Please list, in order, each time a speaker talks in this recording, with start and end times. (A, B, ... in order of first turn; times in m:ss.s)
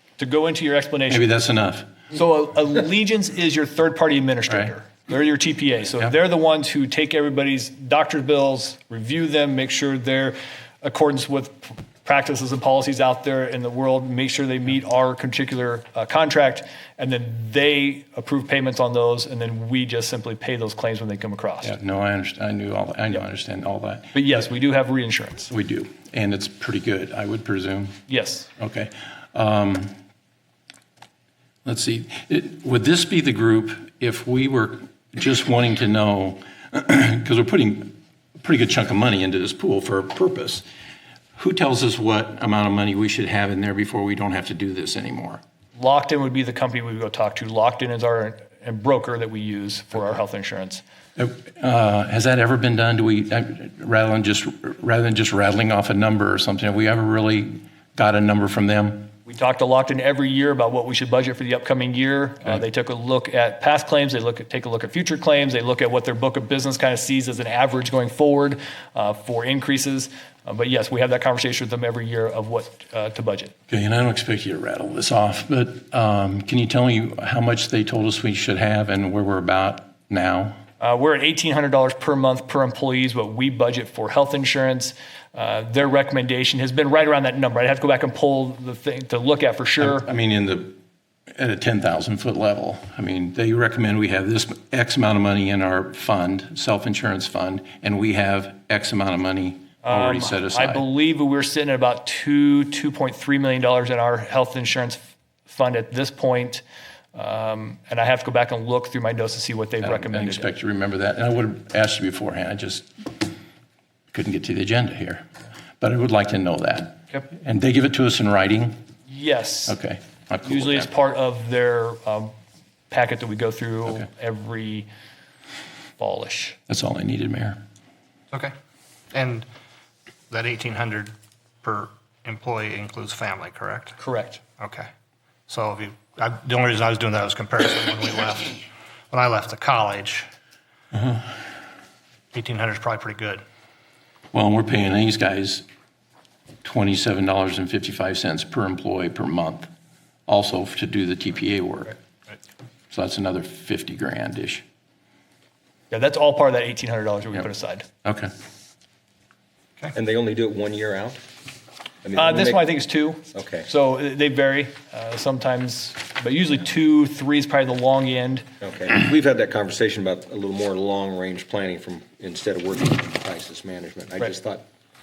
0:00.2-0:01.2 A
0:01.1-0:01.9 B
0:02.1-0:21.7 A
0:04.5-0:04.8 B
0:21.6-0:24.1 B
0:24.1-0:25.5 A
0:25.5-0:28.0 B
0:28.1-0:28.5 A
0:28.6-0:29.9 B
0:31.6-0:40.6 B
0:41.4-0:45.4 B
0:45.8-0:50.8 A
0:51.2-0:59.1 B
0:59.3-1:13.5 A
1:13.7-1:20.6 B
1:20.8-1:30.0 A
1:29.8-1:30.8 B
1:31.4-1:40.8 B
1:39.8-1:46.6 A
1:47.1-1:50.5 A
1:49.8-1:53.1 B
1:54.1-1:55.3 B
1:55.8-1:58.8 B
1:59.1-1:59.8 A
1:59.7-2:00.9 B
2:00.4-2:02.3 A
2:02.9-2:04.9 A
2:06.0-2:06.6 A
2:06.7-2:07.6 B
2:09.1-2:09.5 C
2:10.3-2:14.0 C
2:14.0-2:14.4 A
2:14.6-2:14.9 C
2:15.5-2:20.3 C
2:20.9-2:21.3 B
2:22.3-2:23.4 C
2:24.3-2:25.6 B
2:26.6-2:29.7 B
2:30.3-2:32.0 B
2:32.9-2:34.6 B
2:35.9-2:37.9 A
2:38.0-2:38.3 B
2:40.0-2:41.2 D
2:42.0-2:42.6 D
2:42.2-2:48.4 A
2:43.3-2:43.6 D
2:48.6-2:54.6 D